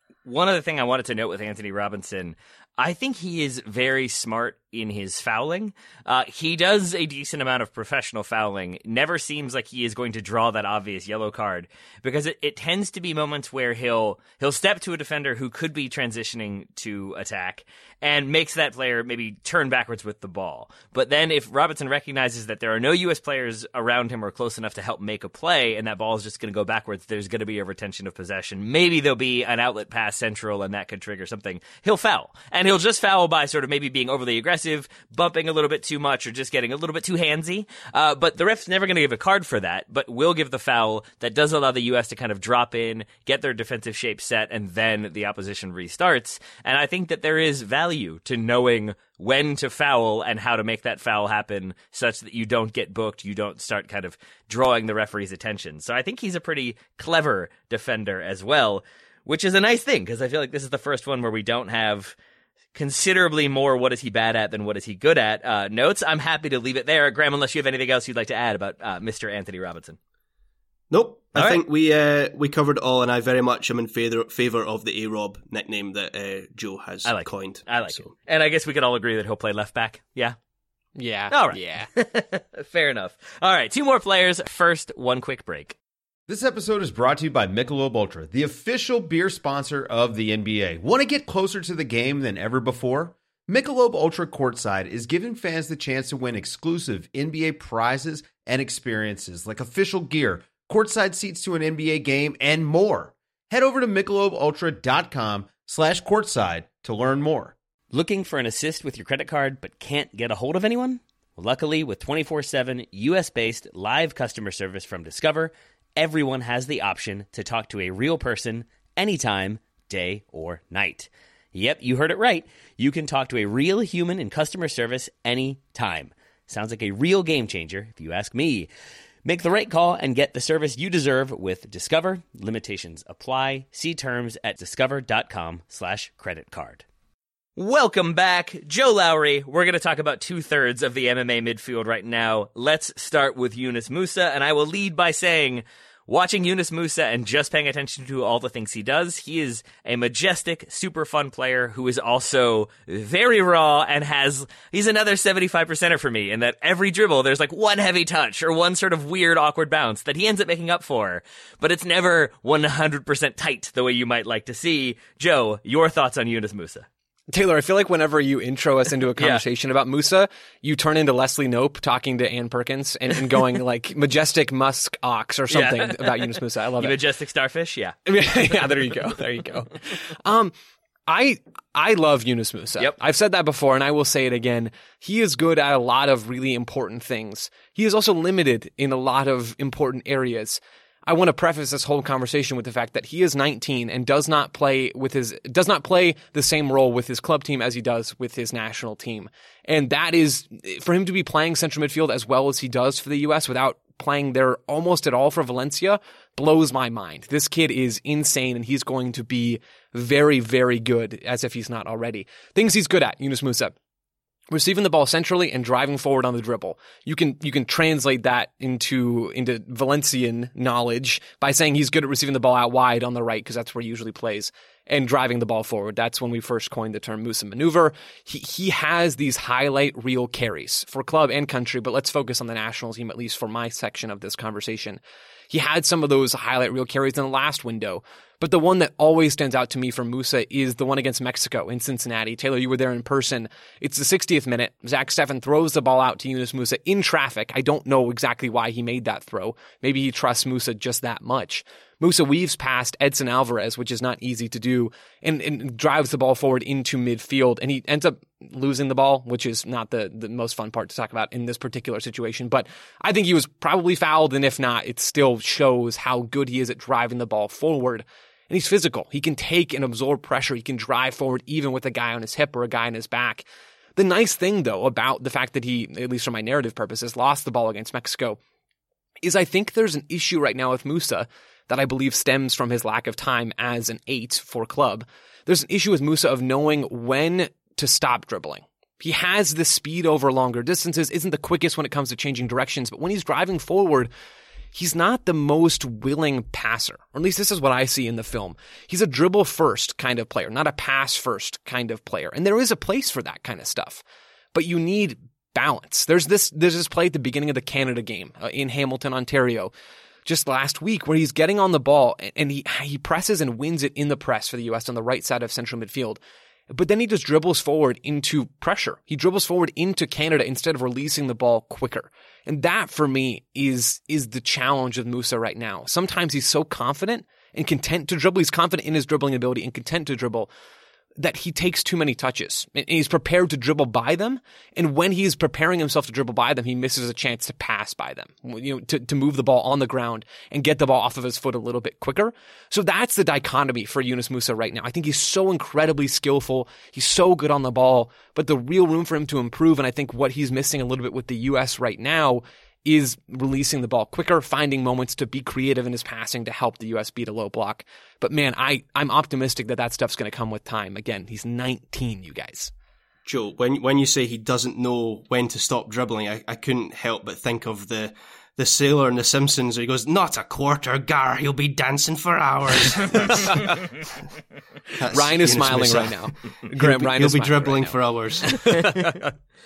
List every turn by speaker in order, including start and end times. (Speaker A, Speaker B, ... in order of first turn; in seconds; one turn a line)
Speaker A: 0.2-62.1
Speaker A: 62.8-70.0
Speaker B: 70.9-78.1
Speaker A: 71.4-71.6
Speaker A: 77.0-80.4
Speaker C: 81.0-81.9
Speaker A: 81.3-85.8
Speaker D: 86.3-107.5
Speaker A: 107.9-128.7
Speaker A: 129.2-136.8
Speaker A: 137.6-166.9
Speaker C: 167.3-177.0
Speaker A: 169.2-169.4
Speaker A: 175.5-178.0
Speaker C: 178.1-180.5
Speaker C: 181.1-213.8
Speaker C: 214.5-278.4
Speaker C: 279.2-294.1
Speaker C: 294.7-304.0
Speaker C: 304.5-309.7
Speaker C: 310.2-330.5
Speaker C: 331.2-362.7
Speaker B: 363.3-373.9
Speaker B: 375.0-376.2
Speaker C: 375.1-378.0
Speaker B: 376.8-378.8
Speaker C: 378.5-379.0
Speaker A: 378.8-379.1